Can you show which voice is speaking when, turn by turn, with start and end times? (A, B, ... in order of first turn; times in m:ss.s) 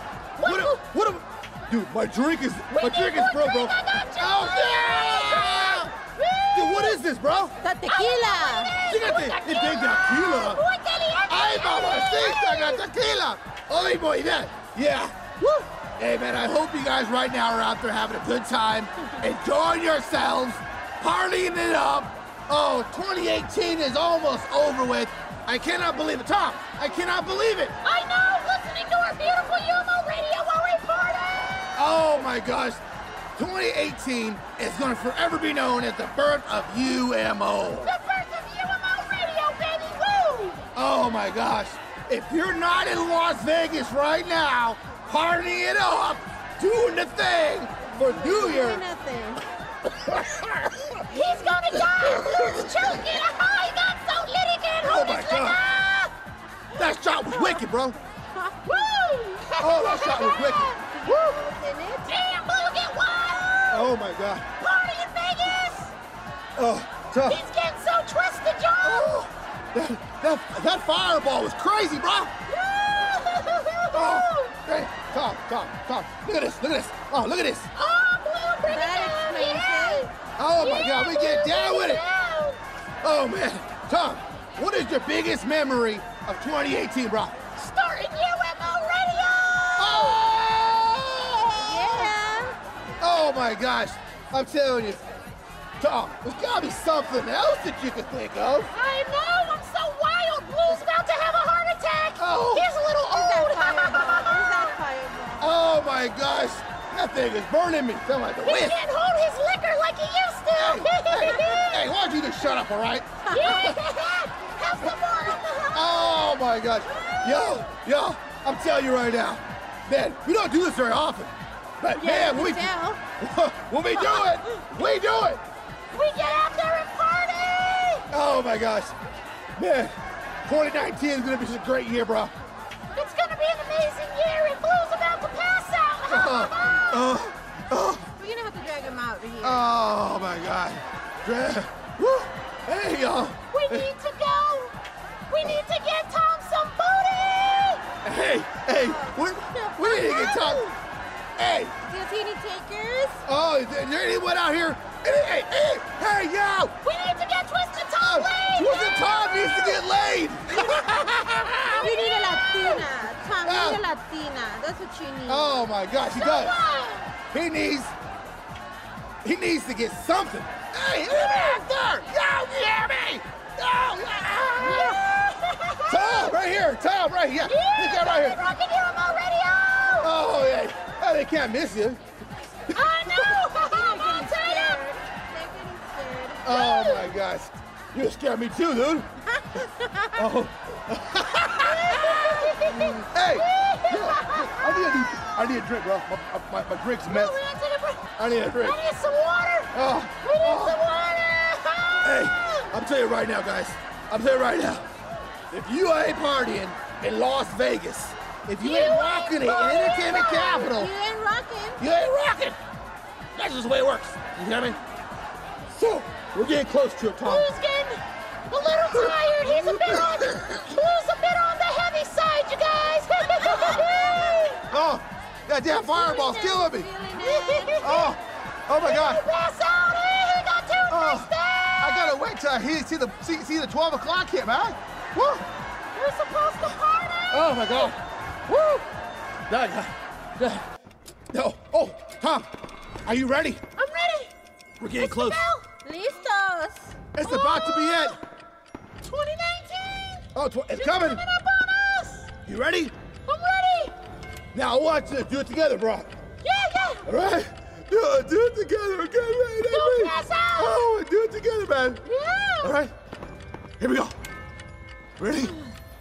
0:00.4-0:00.8 A
0:00.4-0:05.9 B
0:02.7-0:07.0 A
0:06.5-0:07.5 B
0:07.6-0:08.8 C
0:07.9-0:12.8 A
0:08.8-0:10.6 B
0:11.3-0:27.8 B
0:27.8-0:32.1 A
0:31.8-0:32.8 B
0:33.4-0:37.9 B
0:37.8-0:40.6 A
0:40.8-0:48.8 B
0:48.0-0:49.4 C
0:49.9-0:51.0 B
0:51.1-0:56.1 A
0:51.7-0:53.1 B
0:54.8-0:55.6 B
0:56.8-0:58.0 B
0:57.3-0:57.6 C
0:58.4-0:58.9 C
0:58.7-1:01.4 A
0:59.6-1:00.8 B
0:59.8-1:02.1 C
1:02.1-1:03.9 A
1:03.7-1:04.5 B
1:04.6-1:05.9 A
1:06.6-1:07.4 B
1:07.3-1:09.1 A
1:08.8-1:12.3 B
1:12.5-1:14.5 A
1:13.9-1:17.7 B
1:17.7-1:22.6 A
1:18.6-1:20.1 C
1:20.4-1:22.0 B
1:23.0-1:27.4 B
1:27.6-1:30.4 A
1:29.8-1:31.6 B
1:31.6-1:32.6 C
1:33.0-1:35.0 B
1:35.8-1:38.7 B
1:38.7-1:44.8 A
1:42.2-1:42.7 B
1:43.1-1:45.6 C
1:45.4-1:48.8 B
1:48.4-1:51.8 A
1:50.6-1:53.8 B
1:53.3-1:53.7 C
1:53.3-1:56.3 A
1:55.7-2:05.4 B
2:01.9-2:03.0 C
2:05.9-2:08.1 A
2:08.1-2:08.9 B
2:09.6-2:10.0 B
2:10.5-2:12.3 B
2:13.0-2:17.1 A
2:16.1-2:18.1 B
2:18.2-2:19.7 C
2:19.4-2:23.9 B
2:23.5-2:24.8 A
2:25.3-2:27.8 A
2:28.0-2:30.7 B
2:28.7-2:30.8 C
2:31.4-2:31.7 B
2:31.8-2:33.2 C
2:33.3-2:36.7 B
2:36.8-2:39.2 A
2:38.0-2:42.0 B
2:41.7-2:43.1 A
2:41.7-2:45.7 C
2:43.4-2:43.8 B
2:45.3-2:46.6 B
2:46.1-2:47.1 A
2:47.3-2:48.0 B
2:49.2-2:55.0 B
2:54.7-2:56.3 A
2:55.9-2:58.4 B
2:57.4-3:00.1 A
3:00.0-3:02.0 B
3:02.7-3:03.3 B
3:02.7-3:04.8 A
3:03.5-3:07.2 C
3:06.4-3:09.1 B
3:06.5-3:07.1 A
3:09.4-3:10.3 C
3:10.2-3:17.4 B
3:11.6-3:15.5 A
3:17.1-3:22.6 A
3:18.2-3:18.8 B
3:19.7-3:20.8 B
3:22.0-3:24.9 B
3:25.5-3:30.9 B
3:28.6-3:30.7 A
3:30.4-3:31.8 C
3:31.8-3:32.6 B
3:33.4-3:34.8 B
3:35.7-3:37.5 B
3:37.2-3:44.7 A
3:39.0-3:40.7 B
3:43.4-3:44.4 C
3:44.7-3:46.9 B
3:45.8-3:47.8 C
3:47.1-3:48.1 A
3:47.8-3:49.3 B
3:48.8-3:52.1 A
3:50.9-3:55.4 B
3:56.0-3:58.0 A
3:57.3-3:58.0 B
3:59.5-4:00.7 B
4:01.3-4:02.5 B
4:03.0-4:03.6 B
4:03.8-4:04.3 A
4:04.8-4:05.4 B
4:05.0-4:05.7 A
4:05.8-4:07.0 C
4:07.2-4:08.2 B
4:07.2-4:08.2 A
4:09.0-4:12.2 A
4:10.4-4:11.2 B
4:12.4-4:12.9 B
4:13.3-4:14.0 A
4:14.5-4:16.1 B
4:16.4-4:17.1 A
4:17.1-4:22.0 B
4:19.7-4:20.8 A
4:22.1-4:22.7 A
4:22.6-4:22.9 B
4:23.8-4:24.2 B
4:25.2-4:25.6 B